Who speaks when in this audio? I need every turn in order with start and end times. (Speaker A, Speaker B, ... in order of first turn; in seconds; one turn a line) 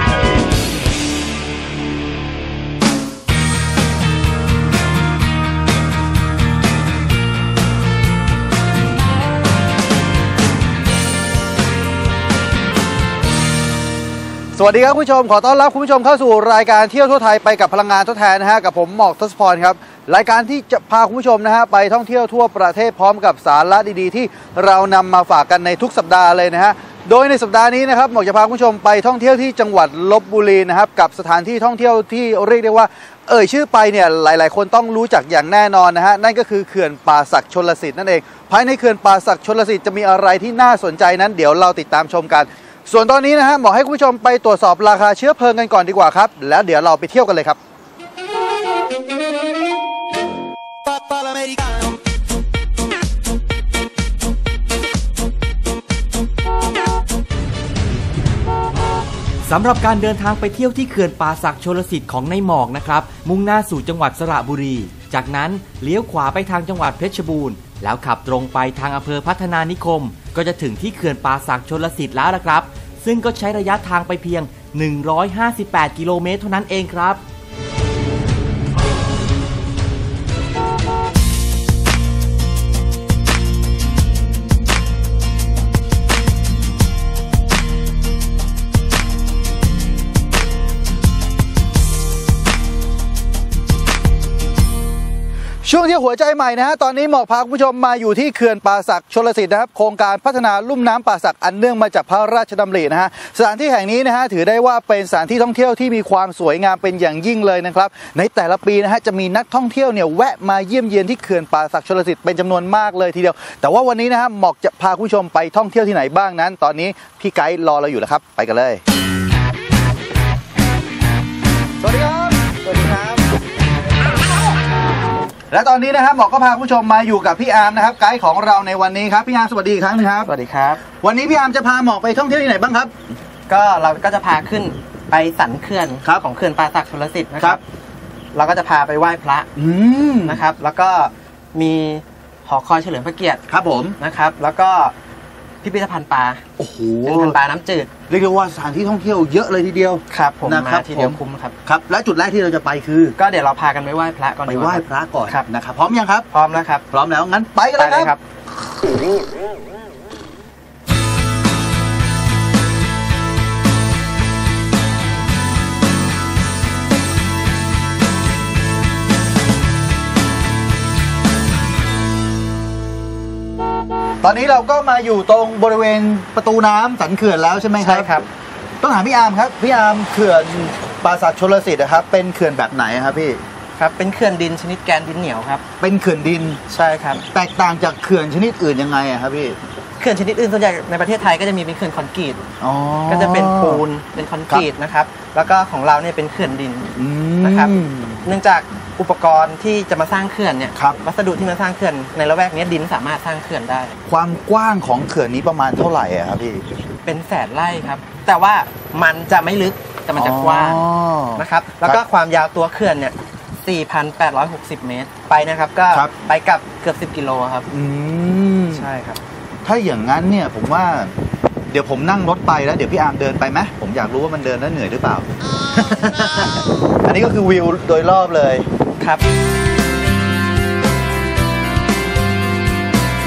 Speaker A: 14.5-47.6
Speaker A: 51.1-51.6
Speaker B: 59.4-77.2
Speaker A: 95.6-118.8
Speaker A: 121.8-122.3
Speaker C: 122.4-123.2
Speaker A: 125.5-130.3
Speaker C: 130.2-130.8
Speaker A: 130.9-132.9
Speaker C: 133.5-137.6
Speaker C: 138.3-139.5
Speaker A: 139.6-140.4
Speaker C: 140.2-143.4
Speaker A: 143.5-144.0
Speaker C: 144.0-144.9
Speaker C: 145.6-146.4
Speaker A: 146.6-147.4
Speaker C: 147.0-147.9
Speaker A: 148.1-153.2
Speaker C: 150.1-151.6
Speaker C: 153.2-155.5
Speaker A: 154.5-156.3
Speaker C: 156.3-156.8
Speaker A: 156.9-158.1
Speaker C: 157.8-158.2
Speaker A: 174.2-178.1
Speaker C: 177.8-178.3
Speaker A: 178.8-183.4
Speaker C: 183.8-185.6
Speaker A: 185.8-186.6
Speaker C: 186.7-187.2
Speaker A: 187.2-189.6
Speaker C: 190.0-192.4
Speaker A: 192.6-193.8
Speaker C: 193.1-203.9
Speaker A: 196.9-198.3
Speaker A: 200.7-201.0
Speaker A: 204.1-206.7
Speaker C: 207.0-210.8
Speaker A: 210.1-212.0
Speaker C: 211.3-217.7
Speaker A: 217.7-218.9
Speaker C: 218.7-219.2
Speaker A: 219.6-221.2
Speaker A: 221.7-228.7
Speaker C: 229.0-229.2